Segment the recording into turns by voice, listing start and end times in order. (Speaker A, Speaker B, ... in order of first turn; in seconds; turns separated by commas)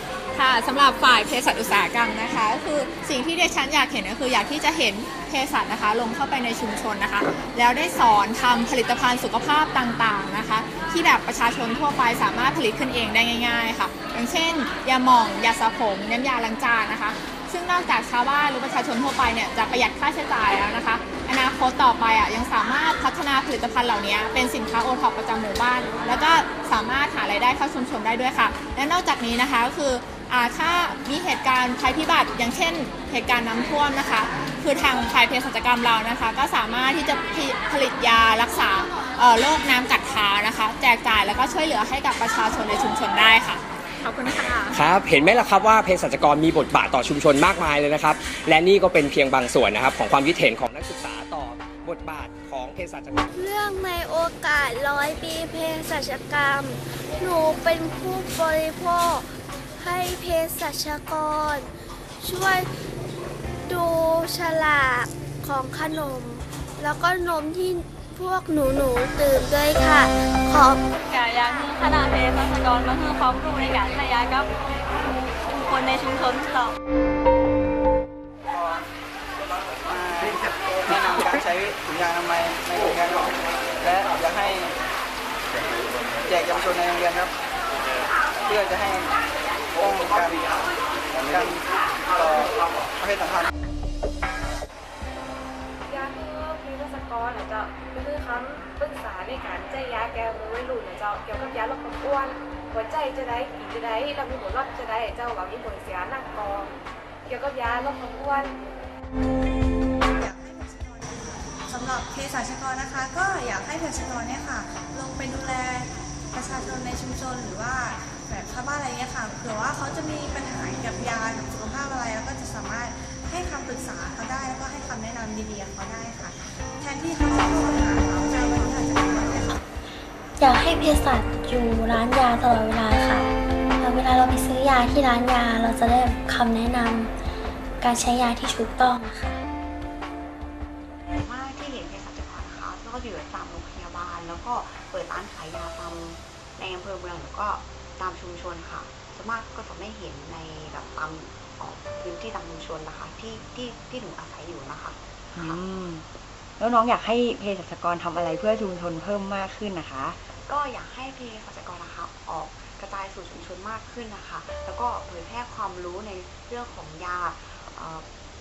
Speaker A: 0.3-44.8, Speaker B: 44.4-53.3, Speaker C: 53.3-59.3, Speaker C: 59.8-61.7, Speaker C: 62.2-62.7, Speaker C: 63.7-70.8, Speaker D: 71.0-74.5, Speaker D: 75.4-76.7, Speaker E: 79.9-80.3, Speaker E: 80.9-83.2, Speaker E: 83.8-84.7, Speaker E: 86.3-87.3, Speaker E: 88.5-89.0, Speaker E: 89.8-90.3, Speaker E: 93.0-93.4, Speaker F: 95.9-106.7, Speaker F: 107.3-108.6, Speaker G: 110.2-129.6, Speaker C: 130.4-137.1, Speaker C: 137.8-139.4, Speaker H: 141.2-155.6, Speaker I: 155.3-156.1, Speaker I: 156.6-160.2, Speaker H: 160.4-168.1